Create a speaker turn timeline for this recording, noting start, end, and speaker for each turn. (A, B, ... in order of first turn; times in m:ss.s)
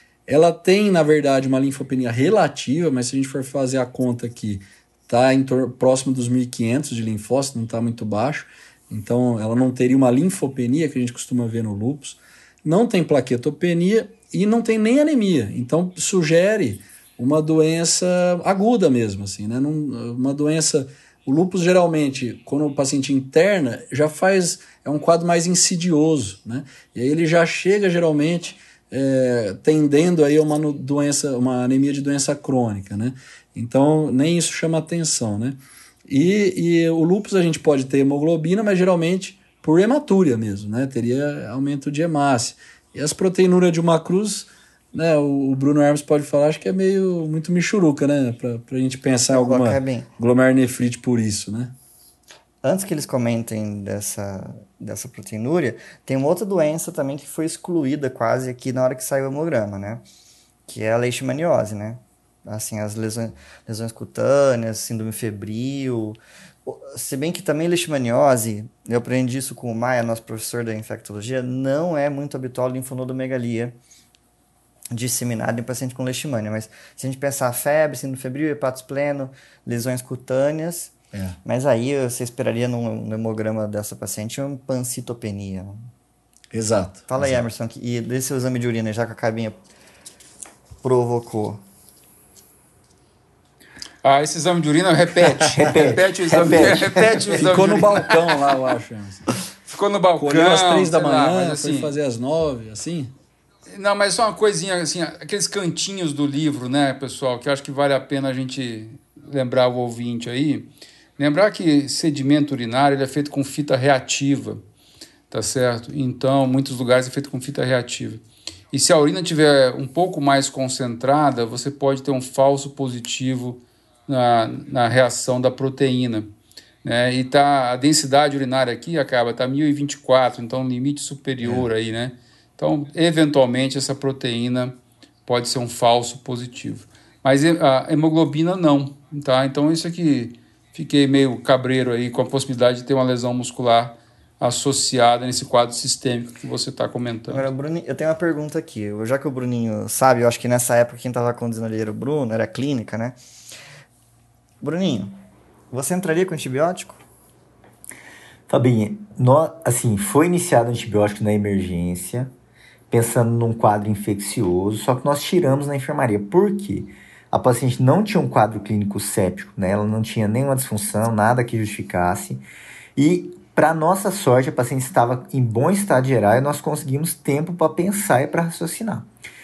0:00.3-0:51.7 A
0:49.3-0:50.1 B
0:52.6-1:00.0 B
1:00.7-1:13.8 B
1:14.9-1:20.9 B
1:21.1-1:21.4 A
1:21.4-1:25.8 B
1:26.5-1:27.4 A
1:27.1-1:29.6 B
1:30.8-1:31.6 B
1:34.0-1:38.4 C
1:35.5-1:37.6 D
1:37.3-1:39.3 A
1:39.6-1:41.9 C
1:40.2-1:43.1 A
1:43.7-1:54.6 C
1:55.3-2:06.3 C
2:06.8-2:27.4 C
2:27.3-2:33.2 B
2:34.6-2:35.1 B
2:35.7-2:37.0 B
2:38.5-2:42.3 D
2:42.9-2:52.4 D
2:53.0-2:59.1 D